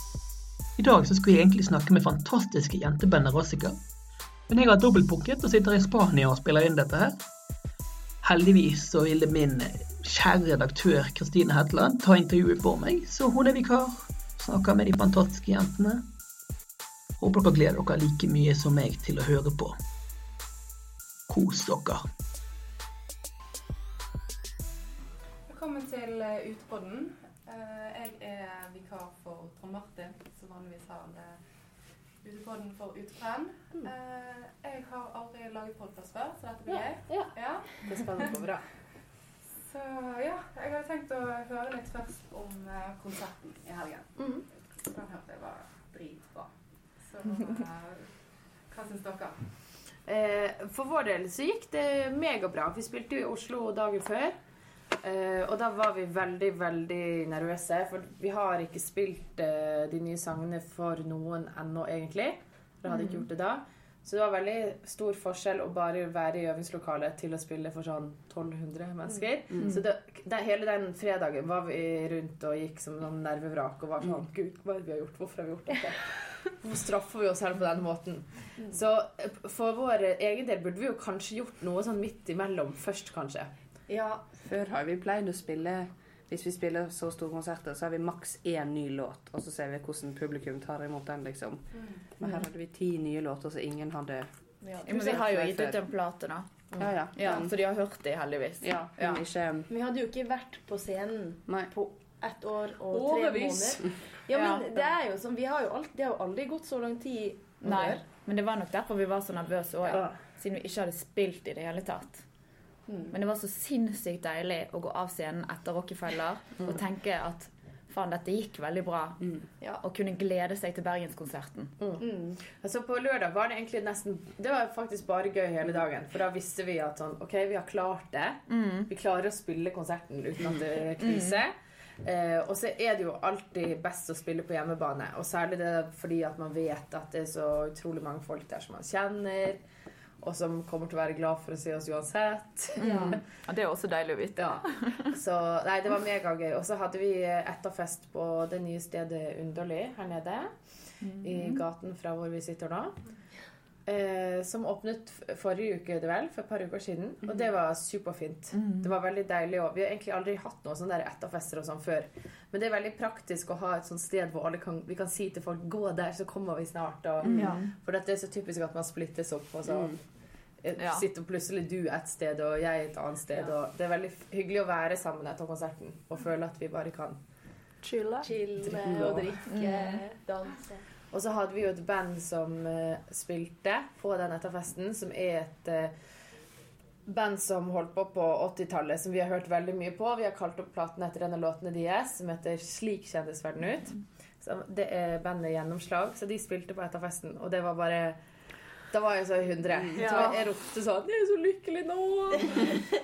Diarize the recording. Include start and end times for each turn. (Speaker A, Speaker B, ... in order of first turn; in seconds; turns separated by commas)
Speaker A: 0.8-3.8, Speaker A: 4.5-7.2, Speaker A: 8.2-16.0, Speaker A: 17.2-19.8, Speaker A: 21.3-22.0, Speaker B: 25.5-31.4, Speaker B: 32.2-38.4, Speaker C: 36.7-38.6, Speaker B: 39.6-48.1, Speaker C: 44.2-44.5, Speaker B: 48.7-49.5, Speaker C: 50.1-54.4, Speaker C: 55.0-83.5, Speaker D: 62.9-63.2, Speaker E: 83.9-84.3, Speaker F: 84.4-94.3, Speaker E: 94.6-95.2, Speaker D: 94.8-96.5, Speaker F: 94.9-95.8, Speaker F: 96.8-97.5, Speaker D: 97.1-99.2, Speaker F: 98.6-99.7, Speaker E: 99.7-108.0, Speaker F: 101.5-101.7, Speaker F: 102.9-103.9, Speaker D: 104.3-104.7, Speaker D: 107.6-112.2, Speaker E: 112.9-113.1, Speaker D: 113.1-121.8, Speaker C: 121.8-139.6, Speaker E: 122.0-122.4, Speaker D: 128.5-128.9, Speaker D: 131.0-131.4, Speaker C: 140.2-143.2, Speaker D: 142.8-145.1, Speaker C: 144.4-150.6, Speaker D: 151.0-151.6, Speaker C: 151.2-153.0, Speaker C: 153.9-170.0, Speaker D: 158.5-158.9, Speaker D: 167.2-167.7, Speaker E: 167.4-167.6, Speaker C: 170.6-177.2, Speaker D: 170.8-171.0, Speaker D: 177.8-178.3, Speaker E: 178.2-180.8, Speaker F: 178.7-179.3, Speaker D: 179.5-180.1, Speaker C: 181.1-185.9, Speaker C: 187.1-198.2, Speaker C: 198.9-202.8, Speaker F: 199.9-200.3, Speaker E: 200.0-200.4, Speaker E: 202.5-202.8